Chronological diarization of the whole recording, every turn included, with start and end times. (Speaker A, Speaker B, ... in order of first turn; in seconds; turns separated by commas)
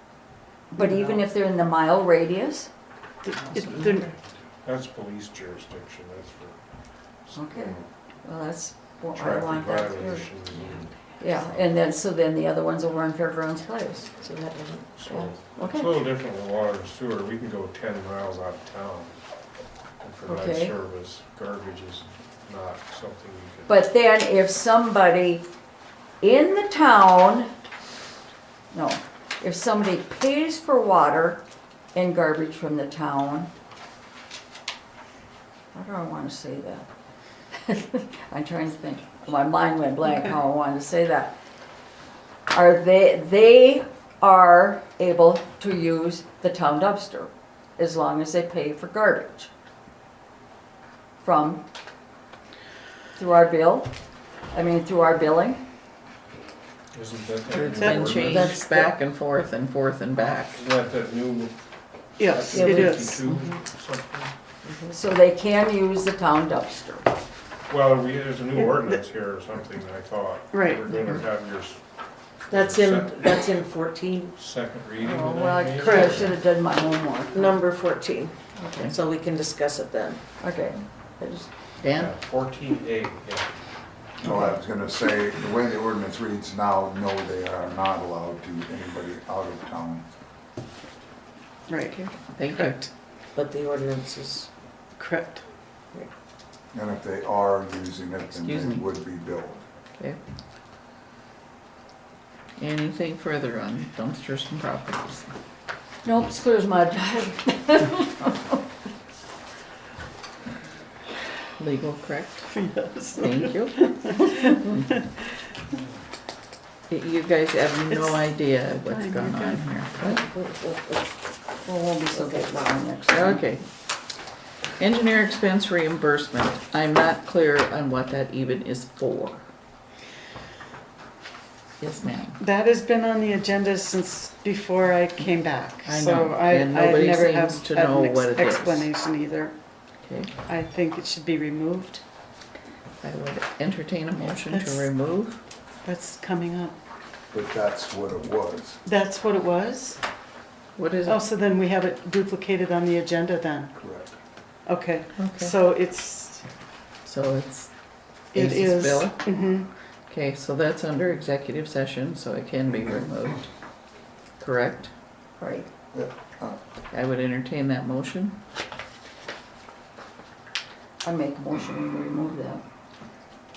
Speaker A: 0.7-2.7, Speaker B: 0.8-1.1, Speaker C: 3.2-4.1, Speaker D: 4.6-6.6, Speaker D: 7.2-7.9, Speaker A: 7.3-10.3, Speaker D: 9.1-10.9, Speaker A: 11.2-14.3, Speaker D: 14.9-19.1, Speaker A: 15.0-16.0, Speaker D: 20.0-23.8, Speaker A: 20.2-20.7, Speaker A: 23.7-25.5, Speaker A: 26.2-27.5, Speaker A: 28.7-33.5, Speaker A: 35.7-36.9, Speaker A: 37.6-41.4, Speaker A: 42.5-49.5, Speaker A: 51.2-51.6, Speaker A: 53.1-53.9, Speaker A: 54.5-55.6, Speaker D: 56.9-58.6, Speaker E: 57.5-60.6, Speaker C: 57.7-58.5, Speaker A: 57.9-58.9, Speaker D: 60.5-61.5, Speaker D: 62.1-64.3, Speaker C: 62.2-63.2, Speaker B: 62.5-63.5, Speaker B: 64.6-65.0, Speaker A: 64.9-67.1, Speaker D: 67.7-71.8, Speaker C: 68.5-69.0, Speaker C: 70.5-70.9, Speaker D: 72.5-73.4, Speaker B: 72.5-74.3, Speaker D: 74.3-76.3, Speaker A: 75.0-77.6, Speaker C: 75.8-76.3, Speaker B: 77.3-80.2, Speaker E: 78.6-78.9, Speaker A: 80.4-81.5, Speaker E: 81.8-82.1, Speaker D: 81.9-83.5, Speaker F: 84.2-90.0, Speaker C: 91.7-92.9, Speaker E: 91.9-92.8, Speaker B: 93.3-94.5, Speaker C: 95.0-95.4, Speaker F: 96.7-99.6, Speaker E: 98.4-98.8, Speaker E: 102.6-105.3, Speaker A: 106.0-108.5, Speaker E: 111.6-112.5, Speaker C: 112.5-115.1, Speaker E: 113.1-114.8, Speaker E: 116.9-120.2, Speaker C: 117.9-119.7, Speaker B: 120.0-121.0, Speaker A: 121.7-123.4, Speaker B: 122.1-122.7, Speaker E: 123.1-123.6, Speaker E: 124.8-129.4, Speaker E: 131.8-132.4, Speaker C: 132.4-139.5, Speaker E: 135.8-138.9, Speaker E: 140.0-140.3, Speaker C: 140.3-142.0, Speaker E: 143.0-145.4, Speaker C: 144.4-144.9, Speaker C: 145.8-146.8, Speaker F: 147.3-148.8, Speaker C: 148.8-150.0, Speaker E: 150.8-151.2, Speaker C: 151.0-153.7, Speaker F: 153.7-154.2, Speaker C: 154.7-156.4, Speaker E: 155.2-155.6, Speaker E: 157.0-157.7, Speaker E: 158.3-159.2, Speaker C: 158.3-159.7, Speaker E: 160.1-163.5, Speaker E: 164.4-164.9, Speaker A: 165.4-165.7, Speaker F: 165.9-166.6, Speaker E: 166.9-168.4, Speaker A: 171.0-172.6